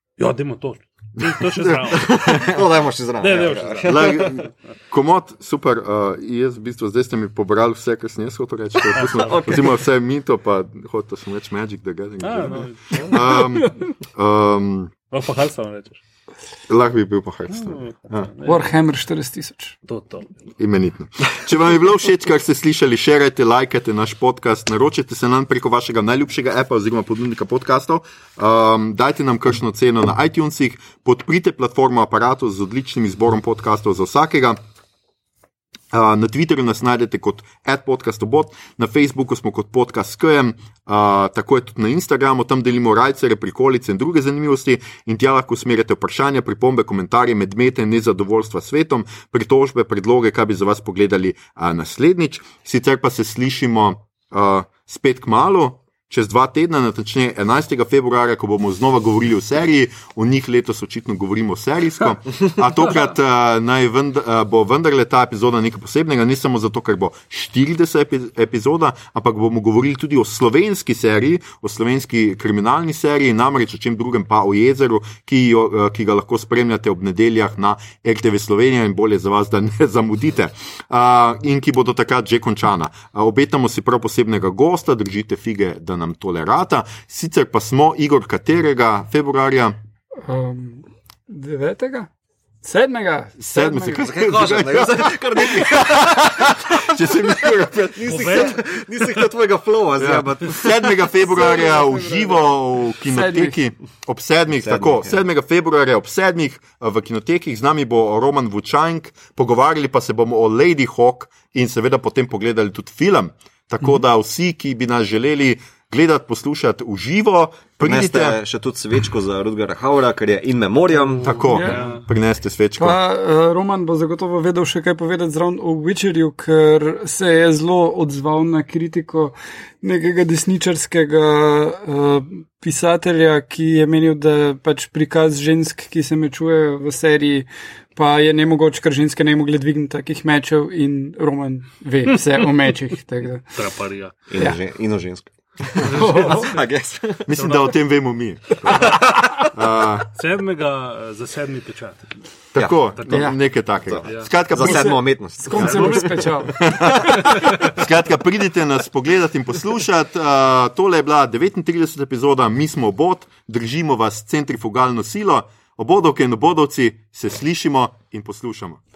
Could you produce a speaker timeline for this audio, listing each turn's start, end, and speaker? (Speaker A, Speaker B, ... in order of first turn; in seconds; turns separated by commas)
Speaker A: 0.2-2.5, Speaker B: 1.8-4.4, Speaker A: 3.2-4.4, Speaker C: 3.8-14.9, Speaker B: 8.9-9.7, Speaker A: 9.0-9.4, Speaker A: 12.2-13.3, Speaker A: 15.1-16.0, Speaker C: 16.7-18.3, Speaker A: 17.5-18.7, Speaker D: 18.4-19.8, Speaker A: 19.9-20.3, Speaker C: 20.6-34.6, Speaker C: 35.9-89.8, Speaker D: 90.2-92.1, Speaker D: 92.6-94.0, Speaker C: 93.4-98.5, Speaker B: 94.0-101.0, Speaker A: 98.0-98.6, Speaker C: 100.0-118.4, Speaker D: 101.3-102.5, Speaker D: 103.1-103.6, Speaker B: 104.6-105.2, Speaker B: 117.8-121.8, Speaker A: 121.1-122.0, Speaker C: 121.2-123.0, Speaker D: 121.5-121.8, Speaker D: 122.8-143.5, Speaker A: 143.5-144.1, Speaker B: 144.3-147.3, Speaker D: 145.8-146.5, Speaker A: 145.9-146.5, Speaker C: 147.3-150.1, Speaker A: 147.4-147.7, Speaker B: 148.7-149.3, Speaker A: 150.1-152.1, Speaker C: 152.5-155.0, Speaker B: 152.5-152.9, Speaker A: 153.0-153.2, Speaker D: 153.1-153.3, Speaker B: 153.8-156.3, Speaker D: 154.6-157.3, Speaker A: 155.5-156.3, Speaker C: 156.7-168.8